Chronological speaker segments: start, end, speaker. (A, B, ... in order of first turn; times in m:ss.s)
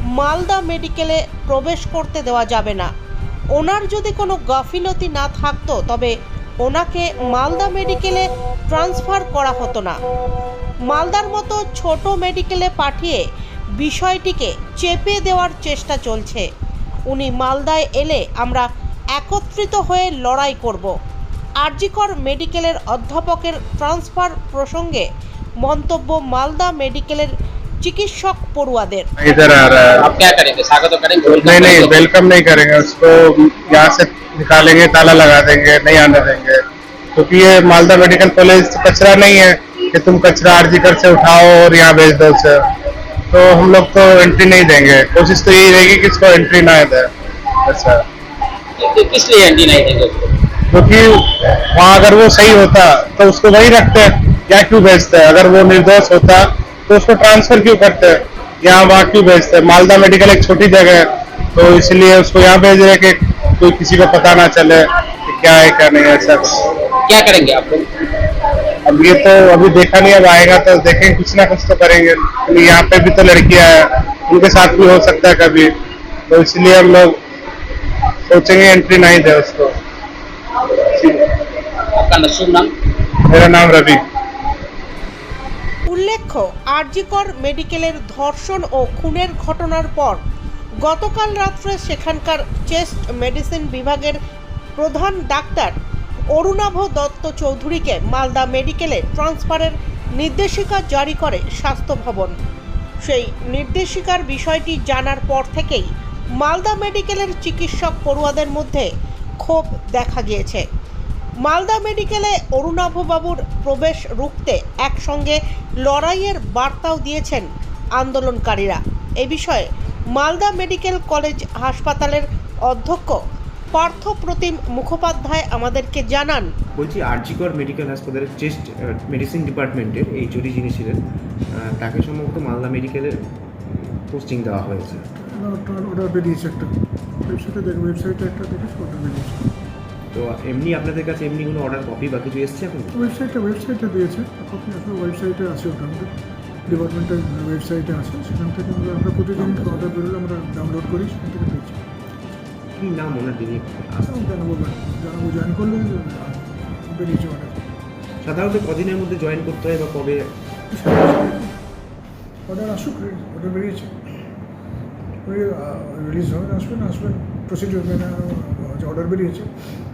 0:00.1-0:02.9 A
0:03.5-0:10.0 A
0:10.9-0:13.2 A
0:13.8-0:16.5 A
0:17.1-0:21.0 A
0:21.6-0:25.1 A
0:25.6-0:29.1 A
0:29.2-0:30.0 B
0:30.0-0:31.9 C
0:31.3-0:36.6 B
0:37.2-0:42.6 B
0:43.3-0:47.1 B
0:47.7-0:48.0 B
0:48.8-0:50.3 C
0:50.7-1:06.7 B
1:07.1-1:07.9 C
1:08.9-1:15.7 B
1:16.3-1:17.2 B
1:18.3-1:19.7 B
1:20.8-1:21.3 B
1:21.9-1:22.7 C
1:23.3-1:24.0 B
1:25.9-1:30.2 A
1:30.8-1:34.2 A
1:34.8-1:35.8 A
1:36.3-1:42.4 A
1:43.0-1:48.9 A
1:49.4-1:50.6 A
1:51.4-1:57.5 A
1:58.0-2:03.2 A
2:03.7-2:06.5 A
2:06.8-2:11.0 D
2:11.6-2:15.1 D
2:15.1-2:19.5 E
2:20.1-2:23.0 D
2:22.9-2:26.1 E
2:26.7-2:31.8 E
2:29.6-2:29.9 D
2:32.8-2:34.2 D
2:34.1-2:37.6 E
2:38.2-2:40.2 D
2:40.7-2:41.6 E
2:42.5-2:44.0 E
2:45.2-2:49.5 E